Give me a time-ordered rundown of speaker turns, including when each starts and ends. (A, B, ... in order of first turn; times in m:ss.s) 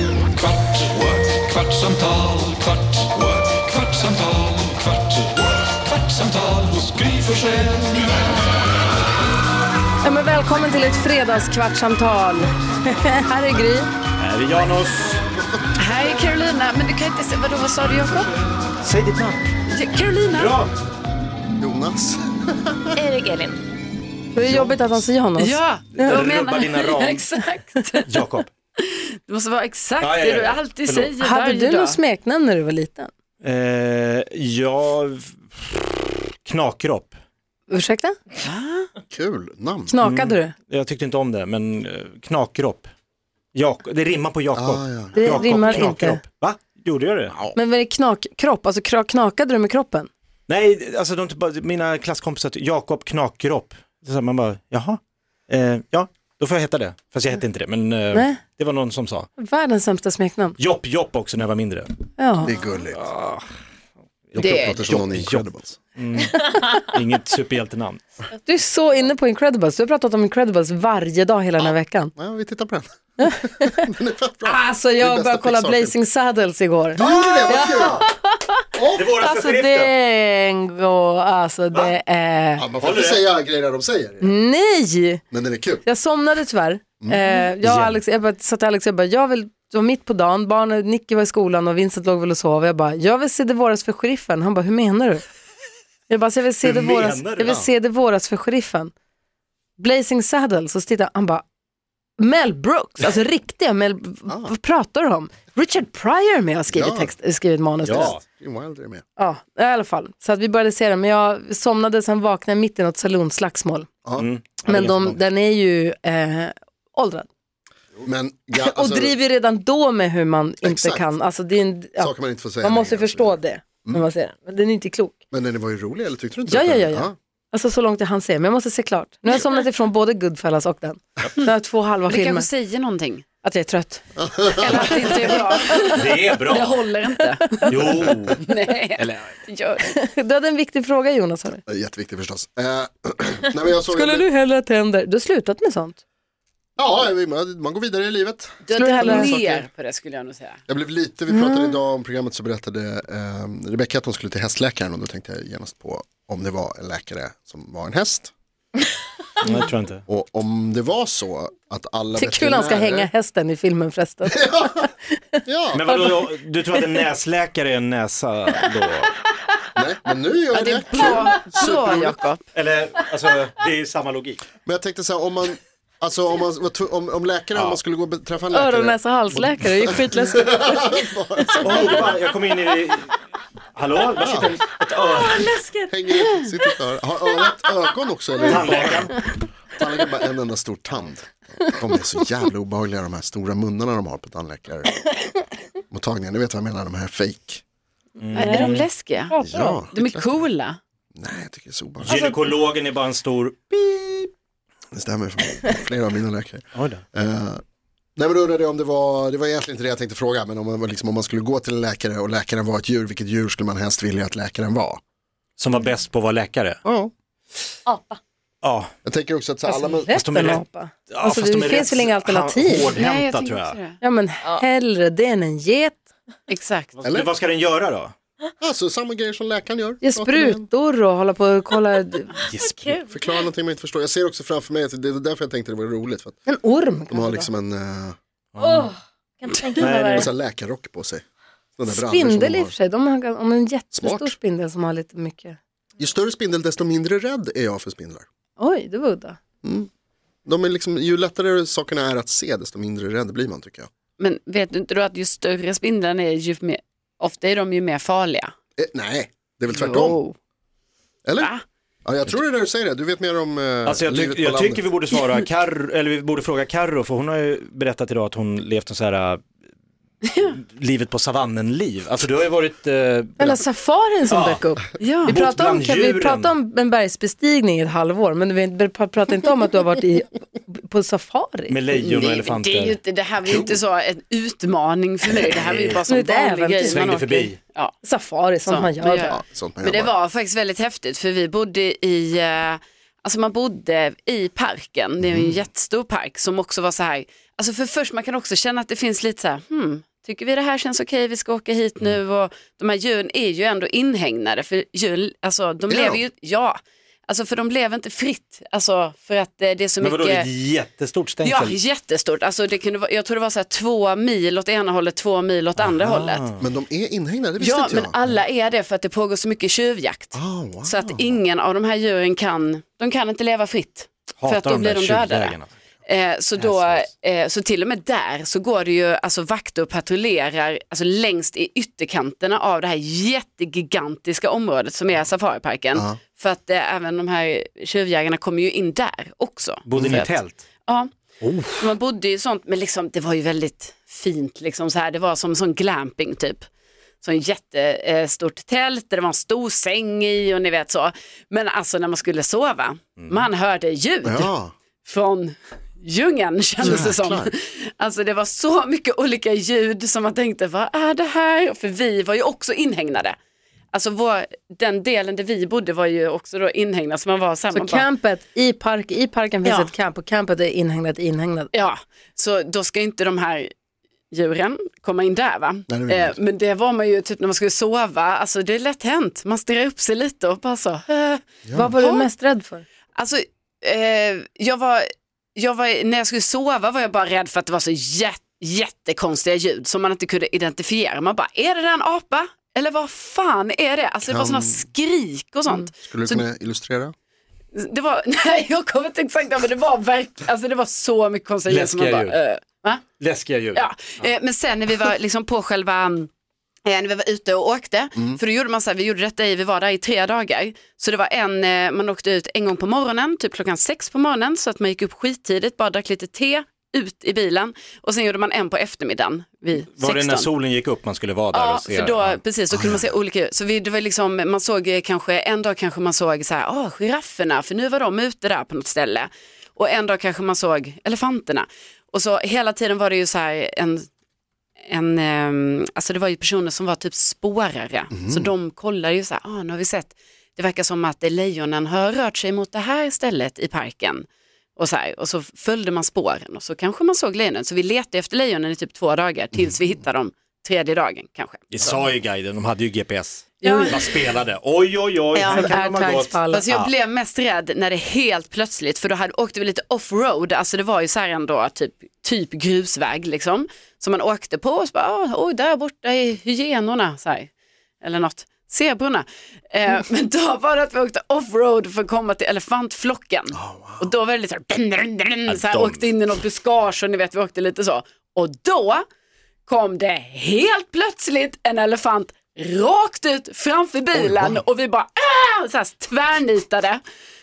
0:00.4-0:05.1 A
0:06.2-0:07.2 A
0:07.2-0:08.2 B
0:10.0-0:13.9 C
0:14.2-0:15.2 D
0:15.8-0:18.3 B
0:18.8-0:19.5 D
0:19.7-0:20.6 B
0:20.3-0:20.7 D
0:21.6-0:23.0 E
0:23.0-0:23.6 C
0:24.3-0:26.3 C
0:24.4-0:25.1 E
0:25.4-0:28.1 B
0:26.0-0:27.2 D
0:28.1-0:28.5 D
0:28.8-0:32.0 B
0:30.0-0:31.1 D
0:31.2-0:33.1 C
0:33.4-0:37.2 D
0:37.7-0:38.2 C
0:38.4-0:38.9 B
0:39.1-0:39.9 E
0:39.9-0:40.5 C
0:40.0-0:42.9 D
0:43.5-0:47.4 D
0:44.5-0:46.0 E
0:45.1-0:46.2 C
0:47.3-0:47.6 E
0:47.5-0:50.1 C
0:50.5-0:59.3 D
0:58.1-0:58.4 C
0:59.4-1:00.6 C
1:00.6-1:01.9 D
1:02.2-1:02.6 C
1:02.4-1:03.1 E
1:02.9-1:03.4 D
1:04.3-1:05.8 E
1:04.4-1:04.8 B
1:04.9-1:08.0 D
1:06.3-1:06.9 C
1:08.4-1:12.1 C
1:11.6-1:15.9 E
1:13.2-1:13.8 C
1:14.4-1:22.6 C
1:16.9-1:18.1 E
1:17.4-1:17.9 D
1:18.7-1:19.1 E
1:18.9-1:19.9 D
1:22.6-1:24.3 E
1:22.8-1:23.2 D
1:24.2-1:25.2 C
1:25.3-1:25.8 E
1:25.8-1:35.2 C
1:27.0-1:27.4 E
1:27.6-1:28.0 D
1:36.1-1:38.9 C
1:36.6-1:37.5 D
1:37.4-1:37.7 E
1:39.8-1:41.4 C
1:42.2-1:48.2 C
1:44.3-1:44.6 E
1:46.7-1:47.1 E
1:47.8-1:49.0 E
1:47.9-1:48.2 D
1:49.2-1:53.9 C
1:54.2-1:55.2 D
1:54.6-1:57.3 C
1:58.0-1:59.2 E
1:58.5-2:05.1 C
2:00.6-2:01.0 E
2:02.0-2:04.0 E
2:05.3-2:07.1 E
2:06.5-2:12.5 C
2:12.1-2:13.2 B
2:13.4-2:14.0 C
2:14.2-2:15.3 E
2:14.6-2:19.9 B
2:15.9-2:16.8 D
2:17.7-2:18.4 D
2:19.9-2:21.6 C
2:21.7-2:24.3 E
2:23.9-2:26.0 C
2:26.8-2:29.7 E
2:28.6-2:30.6 B
2:28.7-2:29.3 C
2:30.7-2:38.3 E
2:31.3-2:31.8 C
2:39.4-2:40.0 D
2:40.1-2:43.1 E
2:42.2-2:46.2 C
2:44.2-2:44.9 E
2:45.4-2:46.0 E
2:45.7-2:49.1 D
2:49.7-2:52.1 E
2:50.5-2:52.4 B
2:52.5-2:54.4 D
2:54.6-3:02.2 E
2:57.5-2:57.8 D
2:58.5-3:01.0 C
3:01.6-3:03.2 D
3:03.7-3:05.6 D
3:04.2-3:04.6 E
3:05.0-3:06.5 C
3:05.9-3:09.2 E
3:08.5-3:09.1 D
3:09.7-3:15.0 E
3:15.9-3:17.6 E
3:18.2-3:18.9 D
3:18.3-3:19.8 C
3:18.3-3:19.4 B
3:19.4-3:20.4 E
3:19.9-3:20.8 B
3:21.2-3:22.3 E
3:22.0-3:24.3 D
3:24.9-3:27.6 E
3:26.7-3:27.0 D
3:28.2-3:35.0 E
3:35.6-3:36.8 D
3:36.8-3:37.1 E
3:37.9-3:38.2 C
3:38.6-3:38.9 D
3:39.0-3:40.1 E
3:39.6-3:42.9 C
3:40.1-3:43.8 D
3:42.9-3:44.6 B
3:44.0-3:46.1 C
3:46.5-3:46.9 B
3:47.0-3:48.1 D
3:47.0-3:47.3 E
3:48.6-3:50.7 E
3:50.0-3:52.4 C
3:52.5-3:53.0 D
3:53.0-3:56.4 E
3:56.4-3:57.5 C
3:57.1-3:58.2 E
3:58.5-3:58.9 D
3:58.6-4:00.3 C
3:59.8-4:00.3 D
3:59.9-4:01.2 E
4:01.8-4:02.7 E
4:01.9-4:05.6 C
4:03.9-4:04.3 E
4:06.0-4:08.2 E
4:08.6-4:09.4 C
4:09.6-4:09.9 E
4:10.4-4:13.9 E
4:14.2-4:18.5 B
4:18.8-4:20.2 E
4:19.7-4:20.3 B
4:21.2-4:21.5 E
4:21.4-4:21.6 B
4:22.0-4:24.8 E
4:23.8-4:29.4 D
4:30.2-4:30.5 B
4:30.5-4:33.6 D
4:33.4-4:41.8 C
4:34.3-4:34.6 D
4:35.0-4:35.4 B
4:35.3-4:36.5 D
4:41.7-4:43.0 D
4:41.9-4:47.9 B
4:43.4-4:43.8 E
4:45.6-4:46.0 D
4:46.1-4:47.0 C
4:46.9-4:47.6 D
4:48.0-4:49.4 C
4:48.6-5:10.5 B
4:49.2-4:50.1 E
4:55.2-4:55.5 E
5:05.9-5:06.2 E
5:10.0-5:11.8 D
5:11.4-5:16.4 B
5:15.8-5:16.6 D
5:16.6-5:18.2 E
5:17.6-5:41.1 B
5:20.3-5:21.4 E
5:24.4-5:25.7 D
5:26.6-5:26.9 D
5:35.9-5:36.2 E
5:39.8-5:40.6 D
5:40.0-5:40.2 E
5:41.4-5:41.9 D
5:41.8-5:46.6 B
5:47.2-5:54.5 B
5:54.2-5:54.7 E
5:55.0-6:03.4 B
5:56.8-5:57.5 E
6:03.9-6:08.0 B
6:07.7-6:11.7 C
6:09.6-6:09.9 B
6:11.7-6:13.7 B
6:14.3-6:21.4 B
6:15.9-6:16.4 E
6:21.6-6:21.9 E
6:21.7-6:22.8 C
6:22.0-6:22.3 B
6:23.1-6:36.4 B
6:34.3-6:34.8 E
6:36.0-6:37.1 E
6:37.7-6:43.0 B
6:41.6-6:42.4 D
6:43.2-6:43.9 D
6:43.7-6:46.3 B
6:46.8-7:00.5 B
7:00.0-7:02.4 D
7:01.5-7:14.1 B
7:02.7-7:03.1 E
7:14.9-7:24.2 B
7:18.1-7:18.5 E
7:24.8-7:32.0 B
7:31.7-7:36.9 D
7:33.6-7:34.3 B
7:33.6-7:34.0 C
7:35.3-7:47.5 B
7:35.5-7:36.6 C
7:48.0-7:59.0 B
7:53.5-7:54.1 E
7:55.5-7:56.3 D
7:59.7-8:07.0 B
8:04.1-8:04.6 E